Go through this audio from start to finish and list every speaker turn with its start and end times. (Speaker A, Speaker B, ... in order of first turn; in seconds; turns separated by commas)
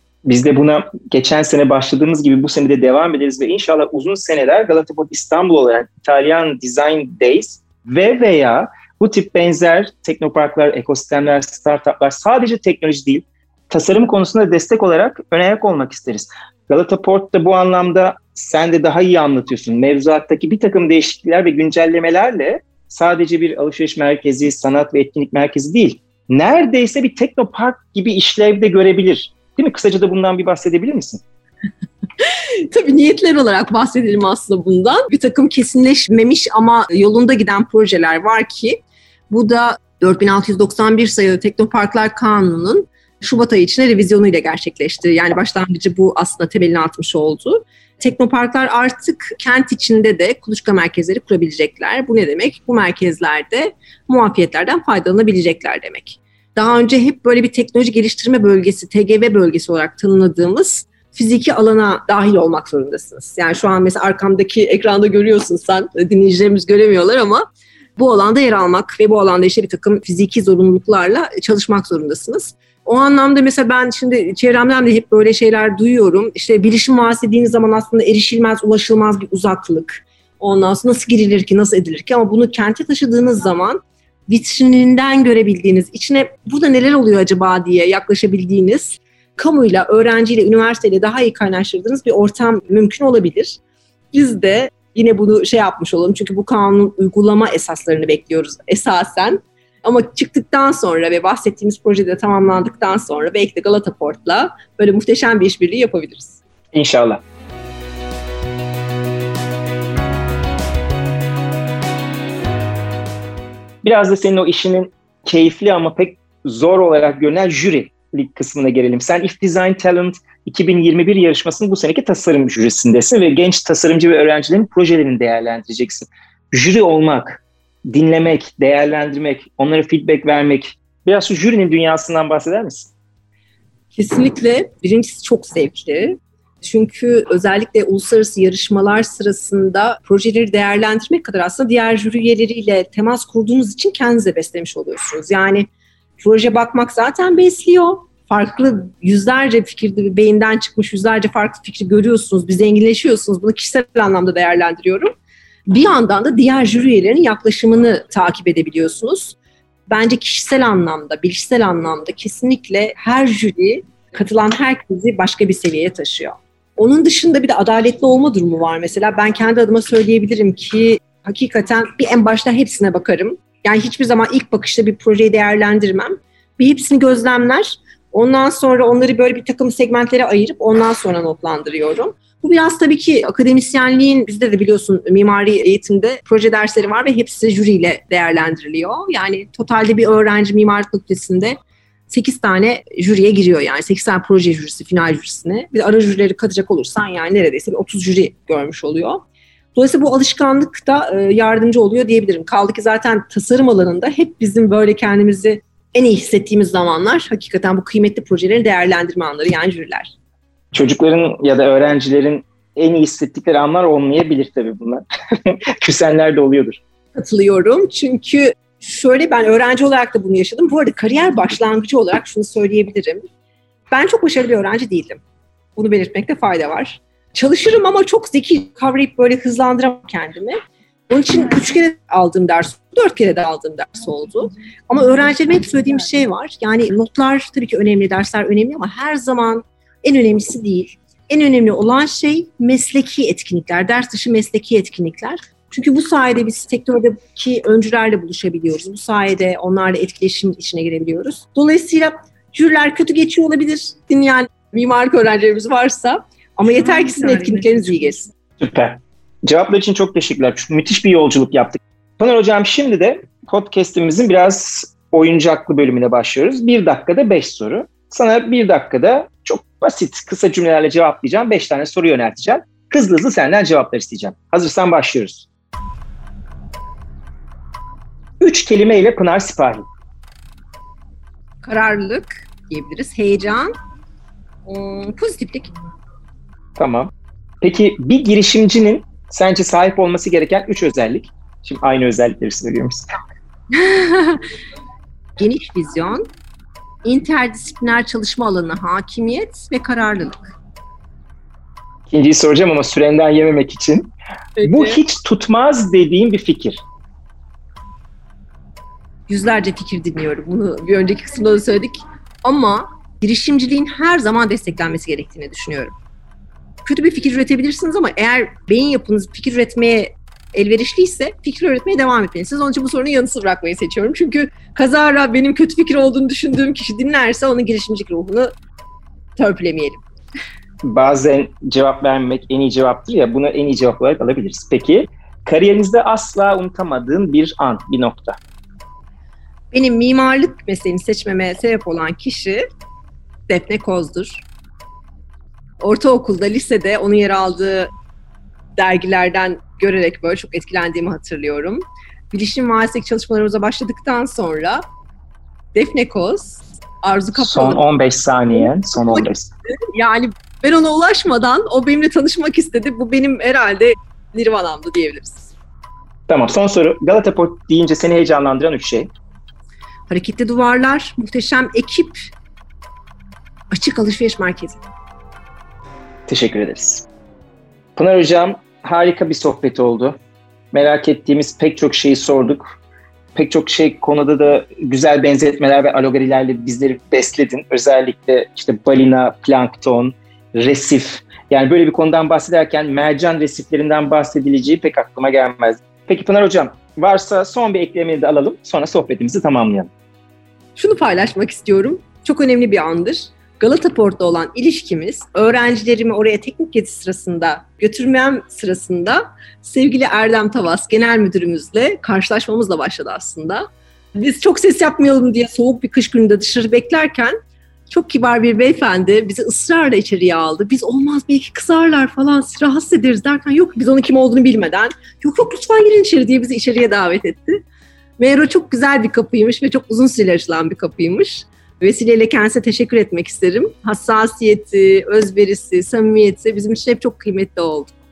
Speaker A: 0.2-31.2, Speaker B: 32.2-67.4, Speaker B: 68.0-93.6, Speaker B: 94.1-106.4, Speaker A: 106.7-107.2, Speaker A: 113.8-132.9, Speaker B: 133.9-145.7, Speaker B: 146.2-155.1, Speaker B: 155.7-159.4, Speaker B: 159.9-191.6, Speaker B: 192.1-199.2, Speaker B: 199.7-210.1, Speaker A: 210.7-216.8, Speaker B: 217.2-223.2, Speaker B: 223.9-225.2, Speaker B: 225.8-230.6, Speaker B: 231.1-258.3, Speaker A: 258.6-275.5, Speaker A: 278.4-279.9, Speaker B: 281.6-283.7, Speaker B: 284.6-285.7, Speaker A: 286.8-293.1, Speaker B: 293.7-294.4, Speaker B: 295.4-296.3, Speaker B: 297.0-300.5, Speaker A: 302.1-304.1, Speaker B: 304.6-305.0, Speaker A: 304.6-306.8, Speaker B: 309.3-315.9, Speaker B: 316.8-328.5, Speaker B: 329.4-330.0, Speaker A: 330.8-338.4, Speaker B: 339.7-342.6, Speaker B: 343.5-344.4, Speaker B: 345.8-347.9, Speaker B: 348.8-354.8, Speaker B: 355.7-357.8, Speaker A: 357.3-359.5, Speaker B: 358.5-359.3, Speaker B: 359.9-365.5, Speaker A: 366.3-369.1, Speaker B: 370.1-372.3, Speaker B: 373.7-374.8, Speaker A: 376.3-377.1, Speaker A: 377.9-380.2, Speaker A: 380.7-382.8, Speaker A: 383.3-399.9, Speaker B: 400.8-417.4, Speaker B: 417.9-427.6, Speaker B: 428.2-437.9